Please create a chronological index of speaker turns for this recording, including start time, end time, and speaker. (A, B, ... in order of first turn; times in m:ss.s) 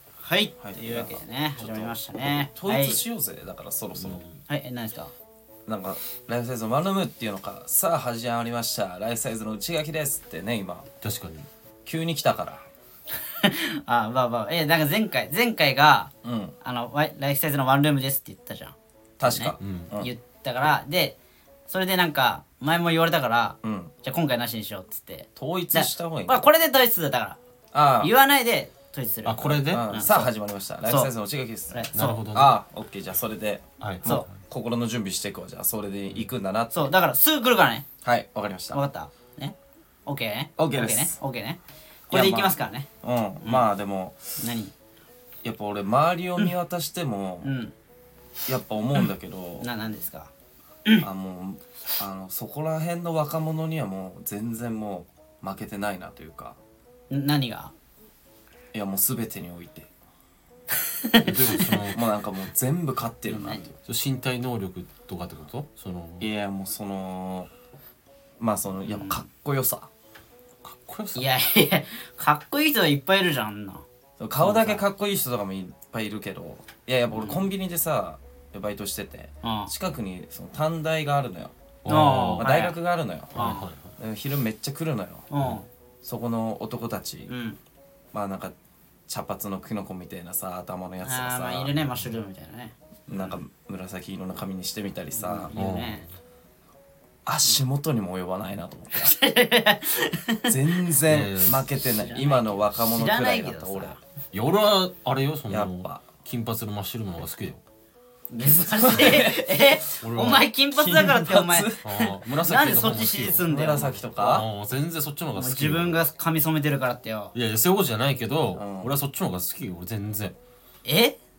0:00.2-0:03.0 A
0:00.6-0:04.2 B
0:04.0-0:04.4 C
0:04.5-0:05.1 A
0:05.7-0:10.9 B
0:11.0-0:11.5 C
0:11.9-0:12.6 B
0:13.3-0:16.1 A
0:16.2-0:16.5 B
0:16.6-0:18.8 A
0:19.2-0:20.1 B
0:19.3-0:21.2 A
0:19.6-0:19.9 C
0:21.7-0:27.4 A
0:23.6-0:23.9 B
0:25.4-0:26.4 B
0:27.7-0:28.1 B
0:28.0-0:30.3 A
0:29.2-0:30.1 C
0:29.7-0:36.9 B
0:30.9-0:31.1 A
0:31.7-0:32.2 A
0:31.9-0:32.6 C
0:33.8-0:34.1 C
0:36.7-0:37.8 A
0:38.0-0:38.8 B
0:38.7-0:39.6 A
0:40.1-0:42.9 A
0:40.6-0:41.2 B
0:42.1-0:44.2 B
0:44.4-0:44.7 A
0:45.4-0:47.5 B
0:47.4-0:47.7 A
0:48.5-0:49.7 B
0:49.6-0:50.3 A
0:51.0-0:56.6 B
0:57.1-0:57.7 A
0:58.7-0:59.9 B
1:00.9-1:01.3 A
1:01.2-1:02.0 C
1:01.9-1:03.8 B
1:03.3-1:03.7 A
1:03.9-1:06.3 C
1:06.2-1:07.5 B
1:08.4-1:09.9 B
1:08.9-1:09.2 A
1:10.6-1:11.3 C
1:11.2-1:13.8 A
1:14.2-1:25.3 B
1:14.5-1:14.8 C
1:17.1-1:17.4 A
1:19.4-1:19.7 A
1:21.8-1:22.5 C
1:21.9-1:22.8 A
1:23.3-1:23.7 A
1:23.4-1:23.9 C
1:25.3-1:25.7 A
1:26.0-1:27.3 B
1:27.3-1:27.6 A
1:28.1-1:28.6 B
1:29.1-1:31.7 B
1:31.0-1:33.4 A
1:33.1-1:35.5 B
1:35.1-1:36.1 A
1:35.6-1:36.0 C
1:37.3-1:39.1 B
1:38.9-1:40.5 A
1:40.5-1:44.0 B
1:41.1-1:41.6 C
1:41.7-1:44.0 A
1:44.3-1:47.6 C
1:45.5-1:46.0 B
1:48.3-1:54.0 A
1:48.5-1:49.6 B
1:50.0-1:50.5 C
1:50.7-1:51.8 B
1:51.8-1:56.0 C
1:53.5-1:54.5 B
1:55.4-1:57.3 A
1:57.3-2:00.4 C
1:58.6-1:58.9 B
2:00.8-2:01.2 A